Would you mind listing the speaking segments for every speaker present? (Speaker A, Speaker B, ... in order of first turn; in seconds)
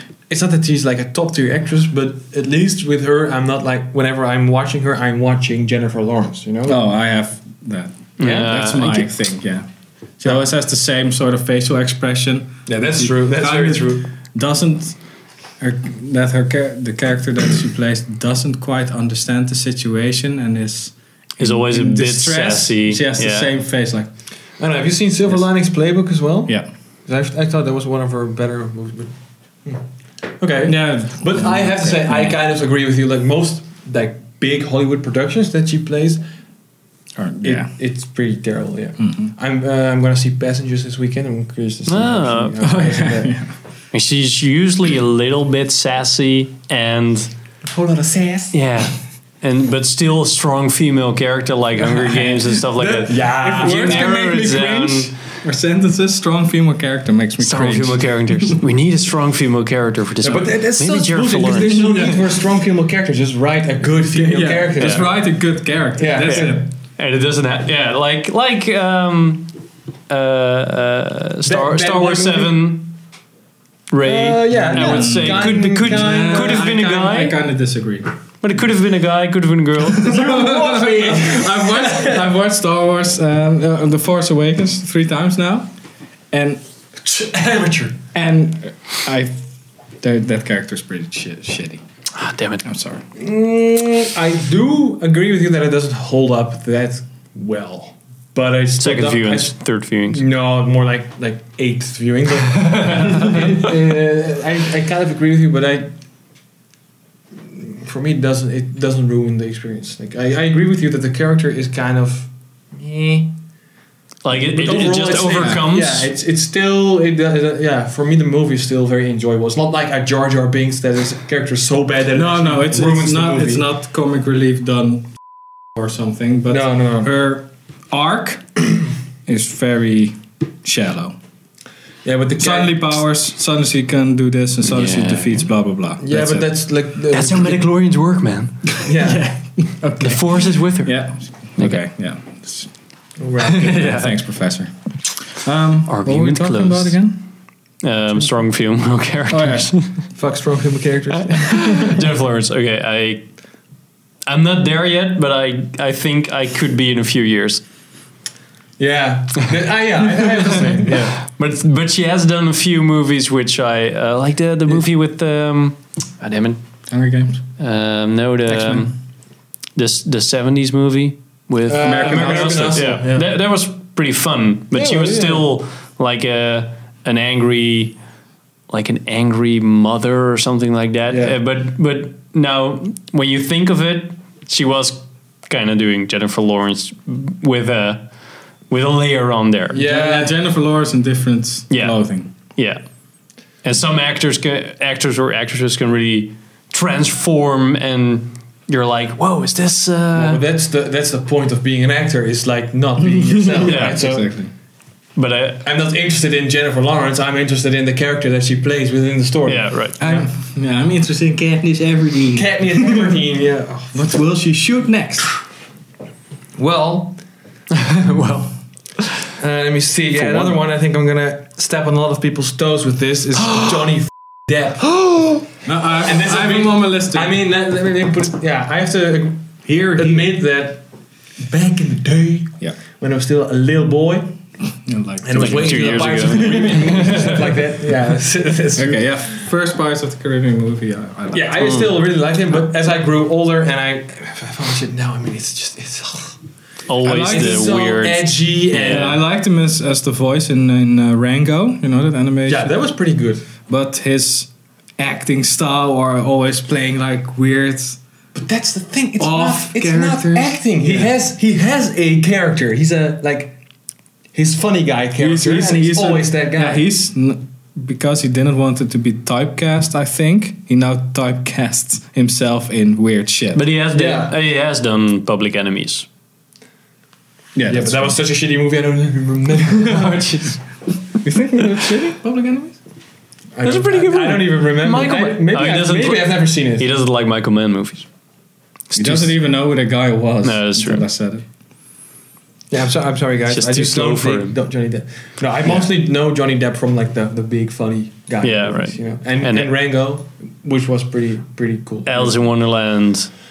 Speaker A: 0.3-6.8, 12.7-14.1, 24.6-29.1, 30.4-36.2, 37.4-43.4, 47.6-48.6, 52.2-54.1, 60.2-65.2, 66.0-66.6, 71.5-72.8, 74.0-76.8, 79.9-82.3, 87.0-88.0, 93.2-105.9, 107.5-113.4, 114.4-123.7, 126.5-127.2, 132.0-133.0, 136.0-137.7, 138.8-139.4, 143.2-143.7, 150.2-151.9, 158.8-161.1, 171.7-173.3, 174.7-175.5, 181.1-181.4, 189.7-190.3, 200.1-204.3, 205.6-210.3, 212.3-214.0, 216.6-217.2, 219.4-225.2, 226.0-230.8, 231.4-234.3, 235.2-239.4, 241.3-246.4, 247.2-249.2, 252.5-253.5, 258.4-263.5, 264.3-266.8, 273.9-274.4, 277.7-280.6, 283.6-286.9, 292.7-302.4
Speaker B: 6.7-9.7, 10.2-15.0, 15.6-24.1, 30.6-32.4, 37.2-37.7, 39.0-39.3, 42.6-43.5, 53.4-58.6, 61.6-62.3, 64.1-66.7, 74.6-78.1, 80.0-85.7, 86.3-86.6, 88.1-89.4, 90.0-91.8, 92.6-93.0, 122.1-125.1, 125.7-128.6, 129.3-131.2, 132.4-136.5, 138.9-142.7, 143.5-147.2, 149.3-149.8, 166.9-167.4, 168.5-168.9, 171.8-172.8, 189.7-192.3, 203.0-204.5, 210.0-213.2, 213.9-215.3, 225.7-227.3, 229.7-230.3, 234.8-237.4, 238.8-241.8, 247.0-247.7, 248.7-252.8, 253.7-258.0, 259.2-261.1, 265.2-273.6, 277.6-278.2, 281.2-282.8, 288.9-291.4
Speaker C: 8.2-9.1, 21.4-23.5, 41.9-42.6, 43.9-47.3, 48.5-55.1, 57.4-62.0, 64.8-65.0, 66.2-69.5, 70.1-73.0, 73.9-77.4, 78.4-80.1, 92.1-92.6, 98.8-100.2, 102.7-103.4, 114.2-116.1, 134.7-135.5, 137.1-138.7, 140.0-141.8, 143.4-144.1, 145.9-147.0, 147.8-150.0, 151.3-153.3, 154.3-157.6, 160.9-166.6, 167.6-168.9, 169.8-178.0, 178.7-188.1, 188.7-189.8, 191.7-192.0, 192.5-192.8, 193.6-200.4, 203.6-204.0, 205.2-205.7, 209.5-210.0, 217.7-219.2, 220.2-220.6, 235.3-237.4, 241.6-241.9, 246.9-249.2, 273.5-276.1, 283.6-288.1, 288.9-289.3, 290.4-291.1, 293.5-294.6, 298.4-299.7, 302.1-303.3